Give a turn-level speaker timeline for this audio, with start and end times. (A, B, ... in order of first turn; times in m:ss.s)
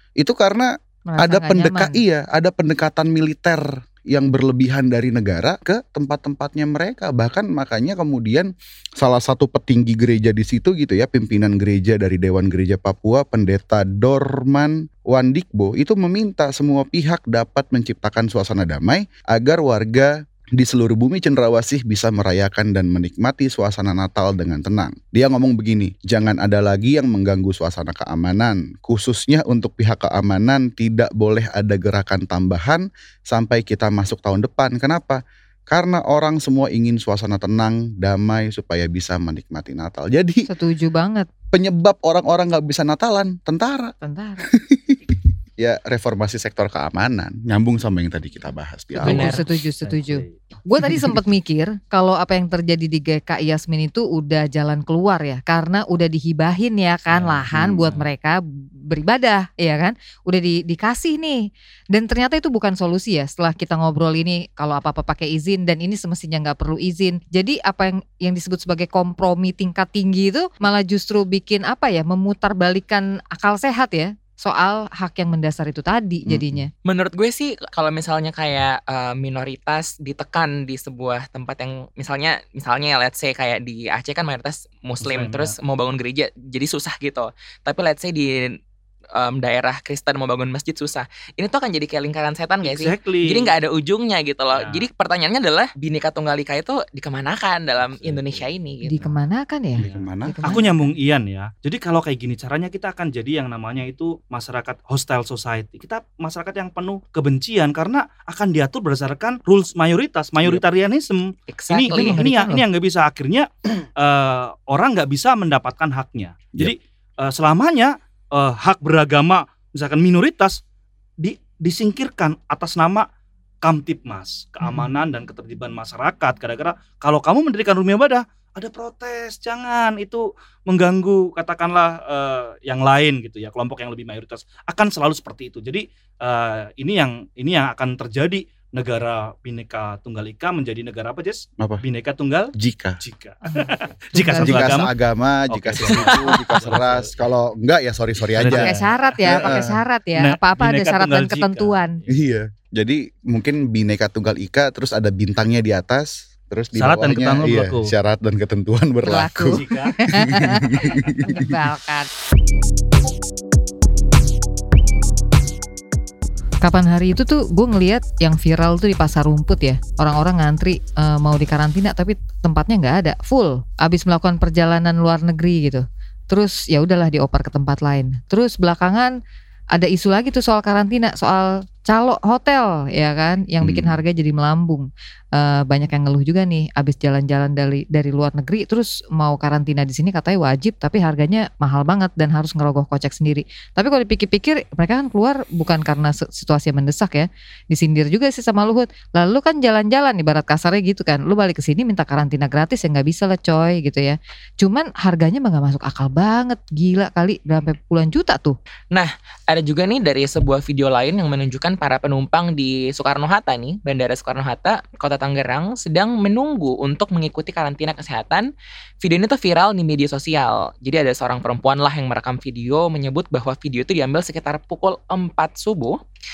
0:00.2-0:40.5 A
0:01.1-0:02.0 B
0:40.5-0:41.3 B
0:41.5-0:43.9 A
0:44.0-0:44.4 B
0:44.5-0:49.4 A
0:49.0-1:01.4 B
0:49.0-0:49.4 C
0:49.8-0:50.3 D
0:50.9-0:51.2 A
0:57.1-0:57.4 D
0:57.5-0:58.0 A
1:01.9-1:16.7 B
1:16.2-1:16.6 A
1:16.8-1:28.6 C
1:25.0-1:25.5 D
1:29.2-1:39.1 C
1:32.6-1:33.5 D
1:34.5-1:34.9 D
1:37.8-1:38.4 D
1:38.8-1:40.9 B
1:39.8-1:40.6 A
1:39.8-2:00.6 D
1:51.5-1:52.2 C
1:51.9-1:52.6 B
2:01.2-2:03.0 D
2:03.6-2:24.9 D
2:04.6-2:04.9 B
2:22.6-2:23.0 A
2:24.1-2:24.8 B
2:24.4-2:28.7 A
2:25.5-2:27.1 D
2:25.9-2:26.4 B
2:28.3-2:32.1 D
2:28.5-2:32.0 B
2:29.3-2:29.8 A
2:32.1-2:39.6 A
2:36.8-2:37.9 D
2:39.0-2:40.7 B
2:39.5-2:40.0 D
2:40.1-2:41.5 A
2:41.2-2:42.1 B
2:46.6-2:59.1 B
2:59.7-3:28.5 B
3:03.6-3:04.0 A
3:28.9-3:38.5 C
3:39.0-3:46.0 C